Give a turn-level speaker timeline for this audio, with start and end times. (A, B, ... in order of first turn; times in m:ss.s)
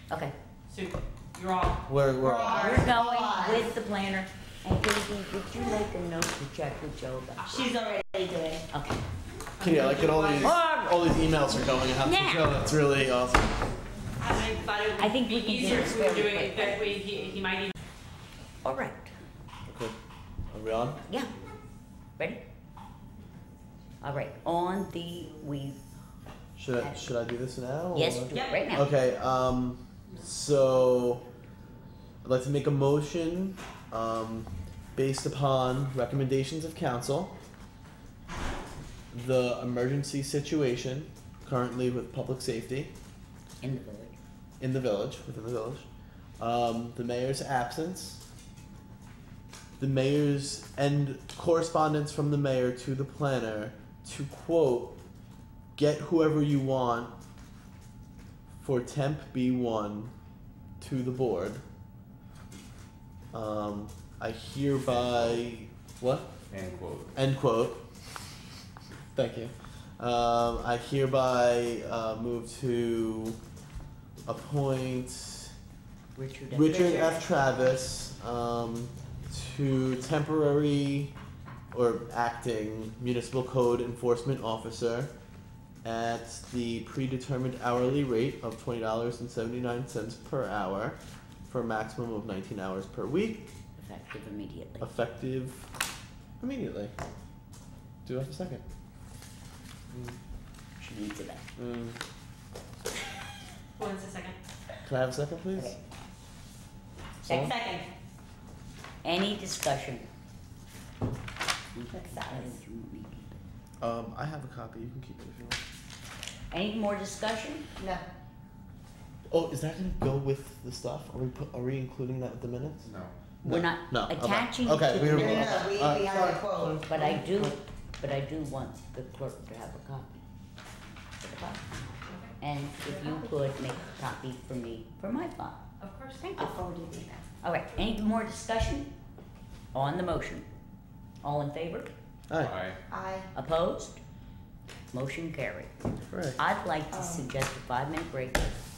0:00.1-0:00.4 A
0:00.7-0:01.8 B
0:01.9-0:02.7 C
0:02.2-0:03.7 D
0:02.5-0:07.7 A
0:07.5-0:08.7 D
0:08.7-0:09.0 A
0:09.6-0:10.6 B
0:09.6-0:13.6 C
0:10.4-0:12.6 A
0:14.2-0:17.7 B
0:15.0-0:17.0 A
0:18.6-0:19.1 A
0:19.7-0:20.0 C
0:20.5-0:21.0 C
0:24.0-0:25.8 A
0:26.6-0:31.2 C
0:27.9-0:28.9 A
0:32.2-0:37.3 C
0:39.1-0:42.9 C
0:43.6-0:44.2 A
0:44.6-0:45.9 C
0:46.4-0:48.2 C
0:49.8-0:54.9 C
0:55.8-0:57.1 C
0:58.6-1:00.1 C
1:00.8-1:01.6 C
1:03.3-1:06.3 C
1:04.9-1:05.4 E
1:06.5-1:07.2 E
1:07.2-1:07.8 C
1:09.2-1:13.4 C
1:14.3-1:15.5 C
1:16.2-1:17.4 A
1:16.5-1:21.1 C
1:21.7-1:25.1 C
1:25.8-1:33.5 C
1:33.8-1:34.9 A
1:34.8-1:35.7 C
1:36.4-1:36.9 C
1:38.0-1:38.6 C
1:39.9-1:40.2 C
1:40.8-1:41.4 A
1:41.6-1:42.0 C
1:43.8-1:44.4 B
1:44.8-1:45.8 C
1:47.2-1:47.6 C
1:47.2-1:47.5 A
1:47.3-1:47.9 D
1:49.0-1:50.0 A
1:51.8-1:53.4 A
1:51.9-1:52.6 D
1:53.8-1:55.6 C
1:56.5-1:57.7 A
1:57.8-1:58.0 D
1:59.3-2:02.9 C
2:02.8-2:03.1 E
2:03.4-2:05.8 A
2:03.4-2:06.8 C
2:05.0-2:07.3 D
2:06.9-2:10.2 A
2:11.2-2:15.6 A
2:12.1-2:12.3 B
2:12.9-2:13.2 D
2:15.8-2:16.4 B
2:16.2-2:17.2 D
2:17.4-2:18.9 A
2:19.7-2:20.5 A
2:21.2-2:21.9 A
2:22.3-2:22.6 C
2:22.4-2:22.8 E
2:22.9-2:23.3 D
2:23.3-2:24.0 A
2:24.9-2:25.7 A
2:26.1-2:26.4 C
2:26.4-2:28.6 A
2:26.9-2:27.3 D